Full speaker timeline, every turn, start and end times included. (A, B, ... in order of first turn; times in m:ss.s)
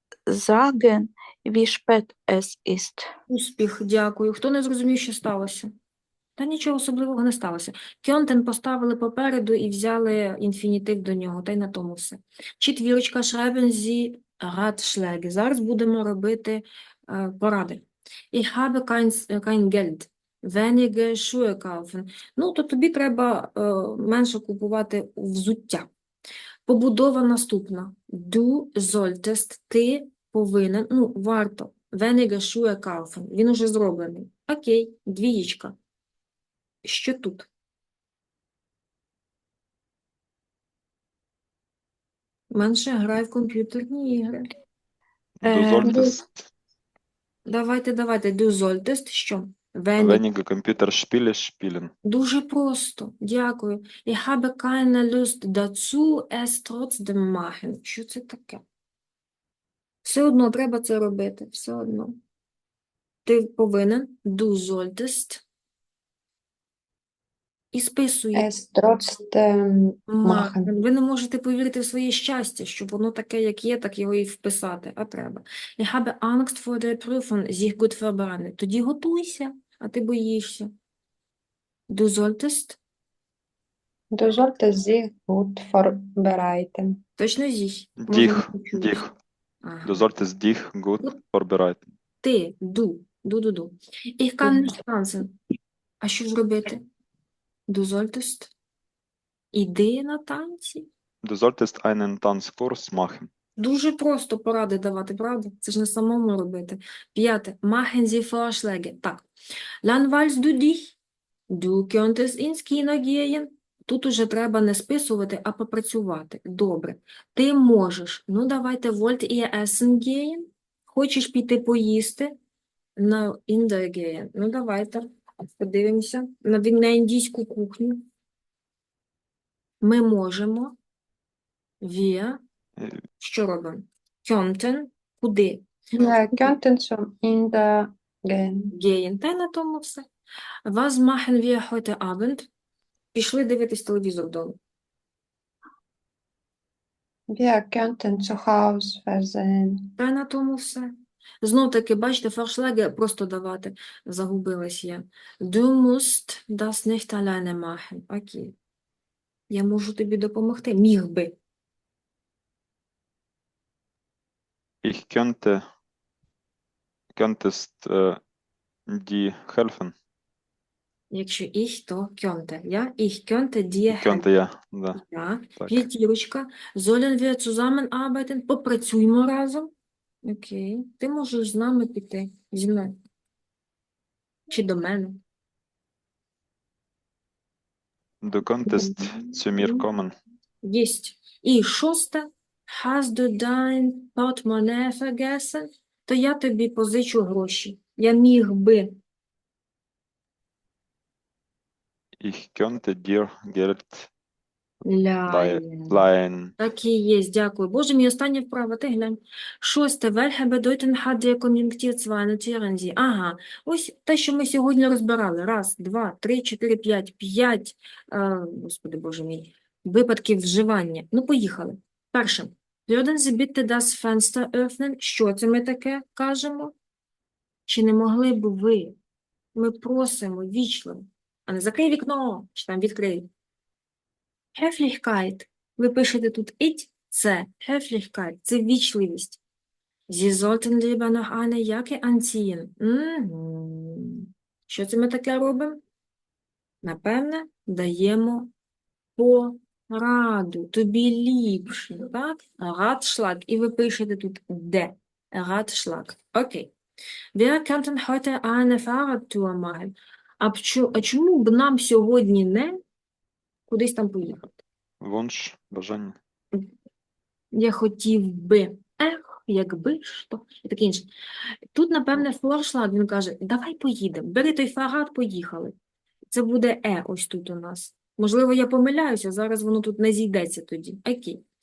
0:00.3-0:03.1 A
0:03.3-0:05.7 B
0:06.4-0:25.9 B
0:26.6-0:35.7 B
0:36.8-0:37.5 B
0:42.5-0:44.5 B
0:45.4-0:46.4 C
0:45.4-0:46.1 A
0:45.9-0:46.1 B
0:47.4-0:50.2 B
0:50.0-0:51.9 C
0:52.0-0:58.6 B
1:00.0-1:02.2 B
1:03.2-1:05.4 B
1:07.7-1:08.5 B
1:08.3-1:10.7 D
1:10.1-1:20.7 B
1:21.9-1:22.8 B
1:24.1-1:27.0 D
1:27.2-1:29.0 B
1:28.0-1:29.1 C
1:29.6-1:30.0 B
1:29.8-1:31.8 C
1:32.2-1:35.4 B
1:36.0-1:36.8 B
1:37.7-1:38.5 B
1:39.5-1:40.9 B
1:41.2-1:43.3 C
1:43.6-1:49.2 B
1:49.8-1:51.0 B
1:51.5-2:02.3 B
2:03.0-2:05.1 B
2:05.6-2:08.0 B
2:09.8-2:10.7 B
2:11.8-2:12.4 B
2:13.2-2:15.7 B
2:15.9-2:18.7 D
2:18.7-2:20.0 B
2:20.6-2:22.5 B
2:23.1-2:24.6 B
2:27.3-2:29.9 D
2:30.0-2:38.5 B
2:39.5-2:41.3 B
2:44.8-2:45.6 C
2:47.2-2:48.2 C
2:48.9-2:49.9 C
2:51.1-2:54.2 B
2:53.9-2:55.0 C
2:54.9-2:59.7 B
2:55.6-2:55.9 C
3:00.2-3:03.0 B
3:04.5-3:05.2 B
3:08.2-3:10.1 C
3:08.7-3:09.8 B
3:10.6-3:19.0 B
3:22.2-3:24.1 C
3:24.8-3:26.1 B
3:25.2-3:26.5 C
3:26.6-3:46.7 B
3:47.7-3:48.9 B
3:49.5-3:53.3 B
3:54.5-3:59.4 B
4:00.1-4:05.8 B
4:06.8-4:08.5 B
4:09.2-4:16.7 B
4:17.3-4:22.8 B
4:23.7-4:24.6 B
4:25.0-4:26.1 C
4:27.5-4:31.1 B
4:31.7-4:35.7 B
4:36.3-4:41.4 B